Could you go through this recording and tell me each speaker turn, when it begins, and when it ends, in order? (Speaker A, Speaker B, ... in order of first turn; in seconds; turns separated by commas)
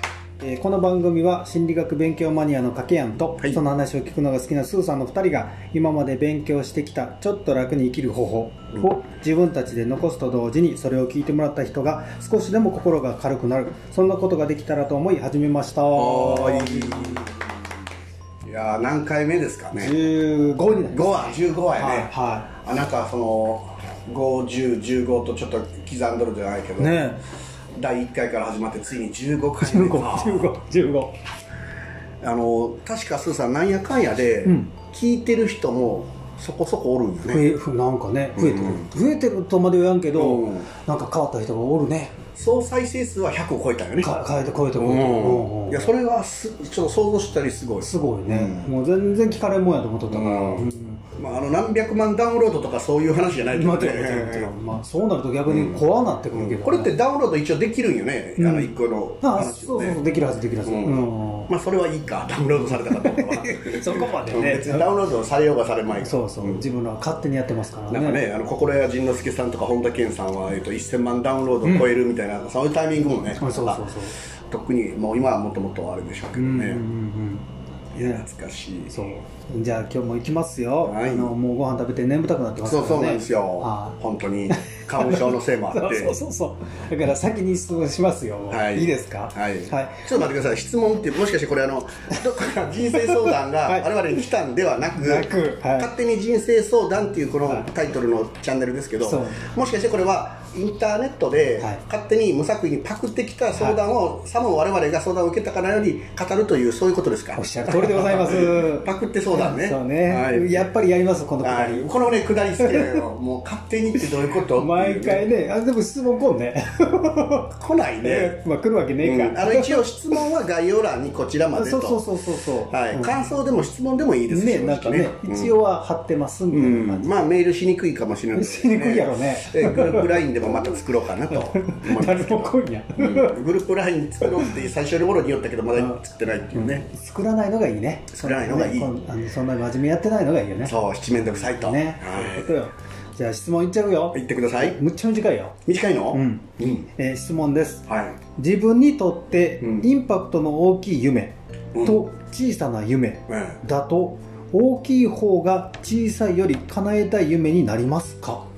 Speaker A: 0.4-17.3, Speaker B: 15.9-17.4, Speaker B: 18.4-19.9, Speaker A: 19.8-22.5, Speaker B: 20.9-27.1, Speaker A: 26.8-27.2, Speaker B: 27.8-30.5, Speaker A: 29.6-31.1, Speaker B: 32.2-37.5, Speaker A: 34.5-34.7, Speaker A: 37.3-42.1, Speaker B: 38.4-38.9, Speaker B: 40.1-40.7, Speaker B: 42.4-44.1, Speaker A: 44.0-45.9, Speaker B: 44.8-48.7, Speaker A: 47.8-51.0, Speaker B: 50.1-50.7, Speaker B: 51.2-54.5, Speaker A: 53.5-56.9, Speaker B: 55.5-60.0, Speaker A: 58.4-61.5, Speaker B: 60.6-66.7, Speaker A: 62.8-64.9, Speaker A: 66.0-68.2, Speaker B: 67.9-73.8, Speaker A: 71.6-71.9, Speaker A: 73.4-74.2, Speaker B: 74.5-76.8, Speaker A: 76.4-78.2, Speaker B: 77.9-78.9, Speaker A: 78.9-84.0, Speaker B: 80.8-81.3, Speaker B: 82.7-86.1, Speaker A: 84.5-90.2, Speaker B: 88.5-110.7, Speaker A: 93.0-93.9, Speaker A: 95.0-95.9, Speaker A: 99.0-99.5, Speaker A: 103.5-103.8, Speaker A: 107.3-111.9, Speaker B: 111.4-115.2, Speaker A: 112.6-113.0, Speaker A: 114.0-117.5, Speaker B: 117.5-118.4, Speaker A: 118.0-119.8, Speaker B: 119.0-122.0, Speaker A: 121.5-123.2, Speaker B: 122.7-125.5, Speaker A: 124.3-127.3, Speaker B: 126.5-136.9, Speaker A: 128.3-130.8, Speaker A: 131.3-133.4, Speaker A: 134.2-134.6, Speaker A: 136.6-145.6, Speaker B: 138.1-138.9, Speaker B: 140.6-142.5, Speaker B: 144.1-144.8, Speaker B: 145.7-146.9, Speaker A: 146.1-158.5, Speaker B: 147.9-148.2, Speaker B: 149.6-149.9, Speaker B: 151.8-152.0, Speaker B: 153.3-153.6